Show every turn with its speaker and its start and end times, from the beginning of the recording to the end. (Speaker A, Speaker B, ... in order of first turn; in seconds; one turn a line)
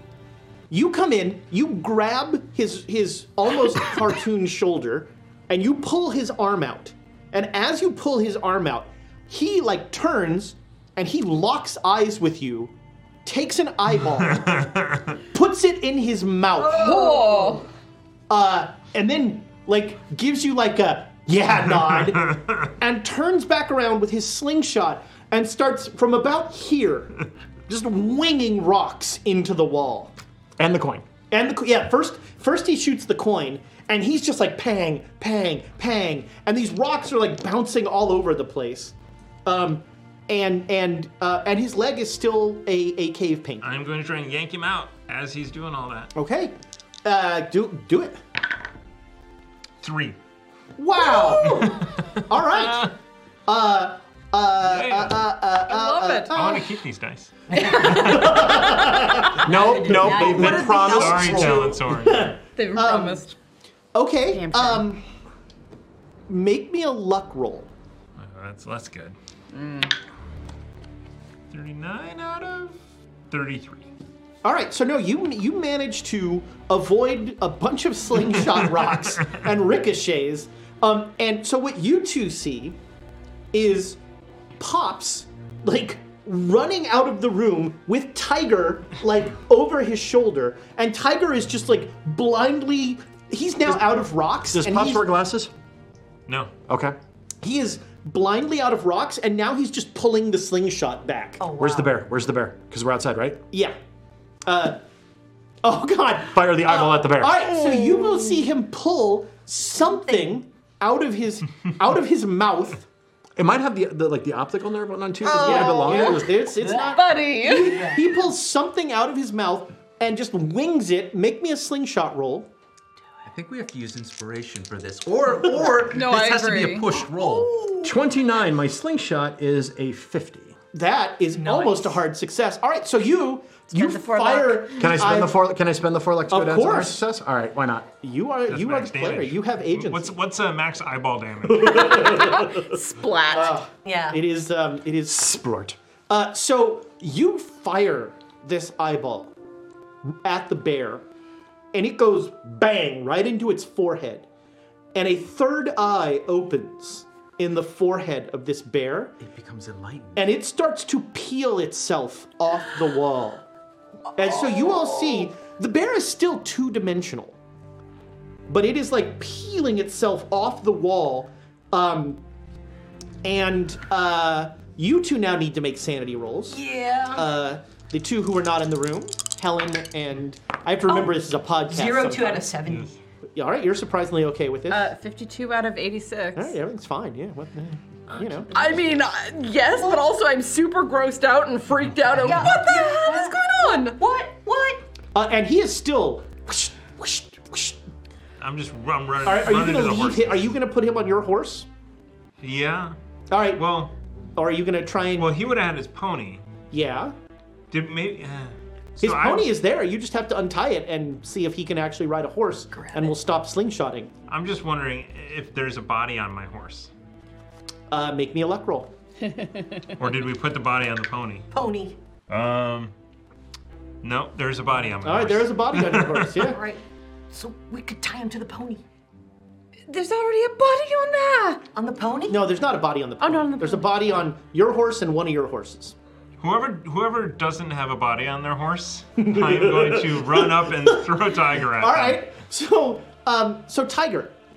Speaker A: 0.7-12.7
Speaker A: 13.2-14.7
Speaker B: 14.5-15.0
Speaker A: 15.3-17.1
Speaker C: 16.6-17.7
Speaker D: 16.6-17.6
Speaker A: 18.3-30.1
Speaker E: 30.6-31.1
Speaker A: 31.3-38.9
Speaker A: 39.5-43.7
Speaker B: 43.6-46.1
Speaker A: 46.2-48.2
Speaker B: 49.8-50.2
Speaker A: 50.8-53.0
Speaker B: 51.1-51.9
Speaker A: 53.5-56.8
Speaker B: 54.6-55.2
Speaker D: 55.7-56.3
Speaker B: 56.3-58.4
Speaker C: 57.5-61.6
Speaker D: 57.5-59.3
Speaker A: 57.9-59.4
Speaker E: 59.4-61.5
Speaker F: 60.0-61.8
Speaker B: 60.4-62.4
Speaker A: 61.4-63.2
Speaker D: 62.6-63.4
Speaker A: 63.9-65.0
Speaker D: 64.3-64.9
Speaker A: 66.3-67.7
Speaker B: 68.2-69.2
Speaker D: 69.5-69.9
Speaker B: 71.5-72.8
Speaker B: 73.3-73.9
Speaker A: 74.4-82.8
Speaker A: 83.5-84.0
Speaker A: 84.6-95.1
Speaker E: 93.7-95.5
Speaker E: 96.7-97.0
Speaker A: 97.4-101.4
Speaker C: 101.4-101.9
Speaker E: 101.6-103.4
Speaker A: 104.5-104.8
Speaker A: 105.6-112.9
Speaker E: 106.3-107.5
Speaker D: 107.9-108.2
Speaker C: 109.8-110.4
Speaker E: 113.4-116.3
Speaker D: 115.3-117.8
Speaker A: 115.3-122.5
Speaker C: 115.5-116.0
Speaker C: 116.6-117.0
Speaker C: 117.5-118.2
Speaker F: 123.2-127.5
Speaker D: 125.9-126.9
Speaker A: 127.5-127.9
Speaker E: 127.8-130.6
Speaker A: 130.7-135.4
Speaker C: 131.3-132.0
Speaker D: 133.7-135.0
Speaker E: 134.8-138.0
Speaker A: 136.3-137.0
Speaker A: 138.0-140.1
Speaker B: 138.5-142.3
Speaker A: 141.5-142.7
Speaker D: 141.9-143.6
Speaker A: 143.3-145.2
Speaker C: 143.8-144.2
Speaker E: 145.1-145.8
Speaker A: 146.1-149.3
Speaker A: 150.2-151.0
Speaker A: 151.7-154.3
Speaker A: 154.9-159.2
Speaker F: 159.2-160.3
Speaker A: 160.2-163.4
Speaker A: 164.2-167.4
Speaker A: 168.5-172.2
Speaker A: 173.2-176.6
Speaker C: 176.5-177.3
Speaker A: 177.1-182.5
Speaker C: 181.7-182.9
Speaker B: 182.7-182.9
Speaker A: 183.3-184.9
Speaker D: 184.7-186.6
Speaker A: 186.4-188.5
Speaker D: 188.5-194.0
Speaker C: 189.7-190.0
Speaker C: 192.1-194.8
Speaker A: 195.1-197.8
Speaker B: 198.4-200.5
Speaker A: 199.2-201.7
Speaker B: 202.4-203.0
Speaker A: 203.3-203.6
Speaker B: 203.6-203.9
Speaker A: 204.4-205.5
Speaker B: 205.2-206.4
Speaker A: 206.7-207.1
Speaker B: 207.7-209.5
Speaker A: 209.0-214.1
Speaker C: 212.7-213.2
Speaker B: 214.3-216.9
Speaker A: 217.9-218.9
Speaker B: 220.0-221.5
Speaker C: 221.5-222.0
Speaker B: 222.3-222.9
Speaker B: 224.0-226.4
Speaker A: 225.0-226.6
Speaker C: 226.4-228.8
Speaker D: 229.9-231.6
Speaker C: 231.7-232.4
Speaker A: 232.3-235.9
Speaker D: 233.2-233.9
Speaker B: 236.4-242.2
Speaker A: 239.2-241.0
Speaker A: 241.6-244.3